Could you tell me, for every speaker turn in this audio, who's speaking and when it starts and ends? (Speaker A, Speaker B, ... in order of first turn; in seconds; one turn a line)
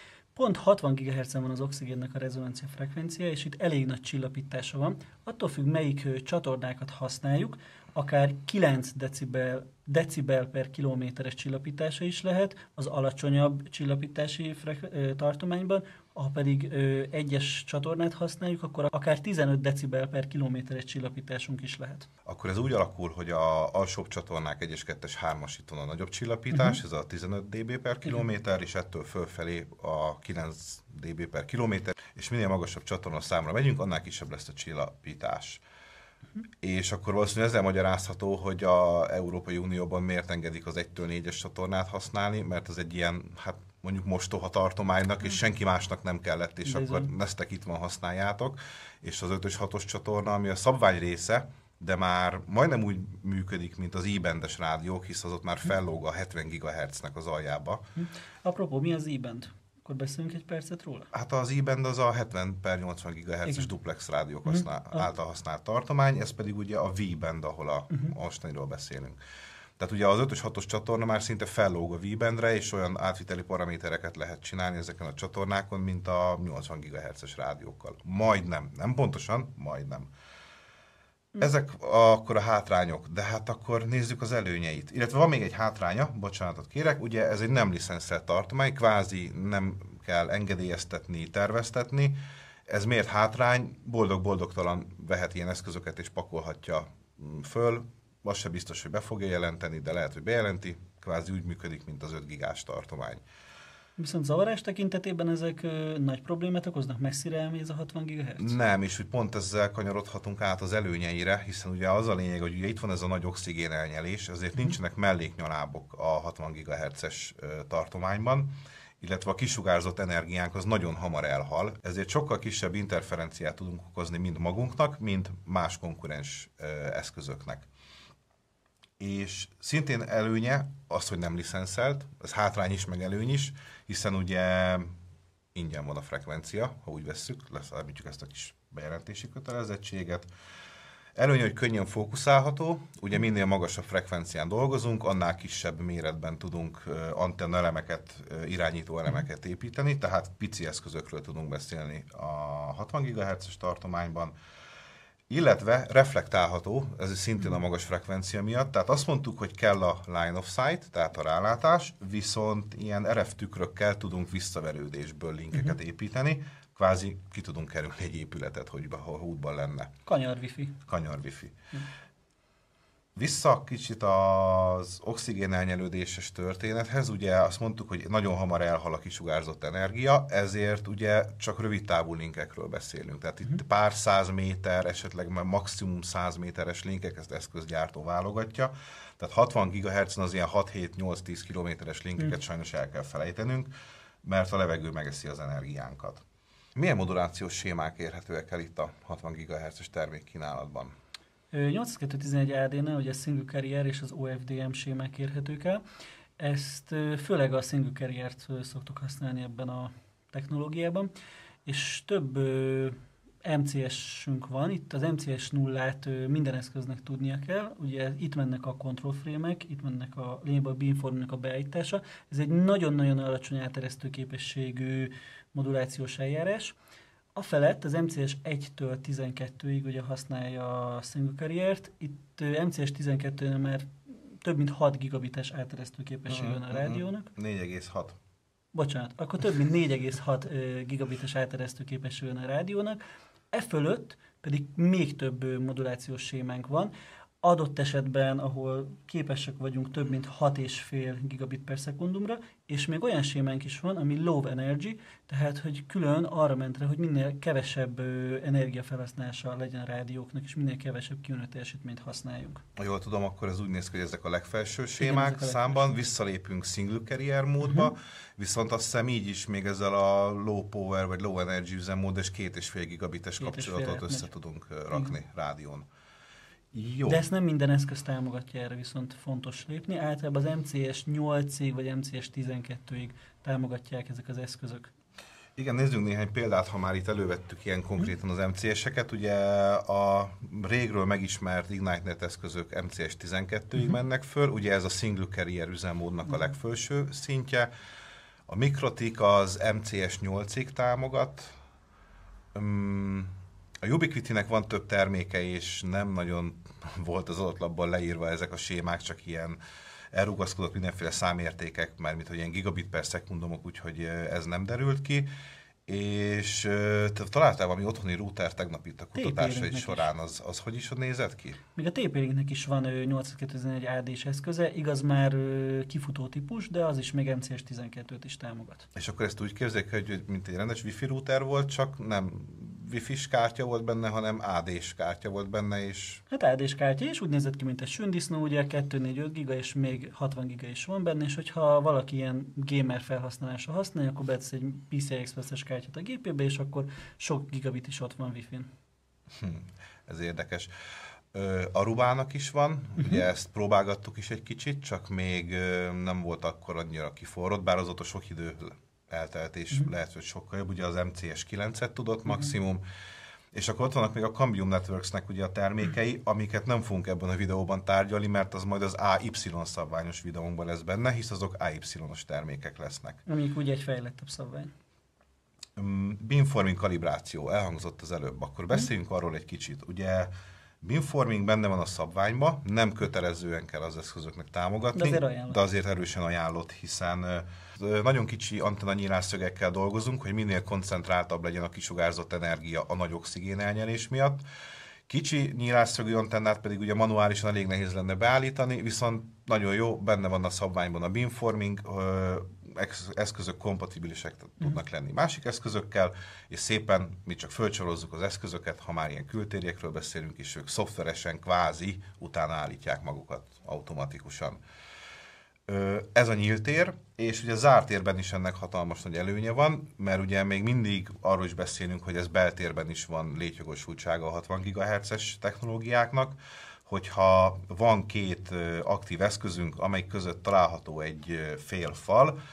Speaker A: 0.3-22.1
Speaker B: 22.2-35.6
Speaker B: 36.6-57.8
Speaker A: 46.6-47.1
Speaker A: 58.0-61.1
Speaker B: 61.1-69.2
Speaker B: 69.8-80.1
Speaker B: 81.4-92.2
Speaker B: 92.7-103.2
Speaker A: 104.0-108.5
Speaker B: 108.4-127.7
Speaker B: 129.0-134.9
Speaker B: 135.5-140.3
Speaker B: 141.2-154.3
Speaker B: 155.3-169.9
Speaker A: 170.1-170.8
Speaker B: 170.9-171.5
Speaker B: 173.2-193.7
Speaker B: 194.2-196.2
Speaker B: 196.8-200.9
Speaker A: 201.5-205.8
Speaker A: 206.4-211.1
Speaker A: 211.6-226.8
Speaker A: 227.3-237.3
Speaker B: 236.3-238.2
Speaker A: 238.7-243.0
Speaker A: 243.5-262.6
Speaker B: 262.8-275.8
Speaker A: 265.0-265.9
Speaker A: 273.4-274.3
Speaker B: 276.7-277.2
Speaker A: 277.1-284.9
Speaker B: 285.6-297.7
Speaker B: 298.5-301.6
Speaker B: 302.5-309.6
Speaker B: 310.1-315.3
Speaker B: 315.9-321.6
Speaker A: 319.1-320.1
Speaker A: 321.7-328.8
Speaker B: 328.9-336.2
Speaker A: 336.3-348.7
Speaker B: 349.3-350.7
Speaker B: 351.3-362.8
Speaker B: 363.5-373.2
Speaker A: 373.2-374.7
Speaker B: 375.8-394.4
Speaker A: 384.9-385.6
Speaker B: 395.1-414.6
Speaker B: 415.7-432.4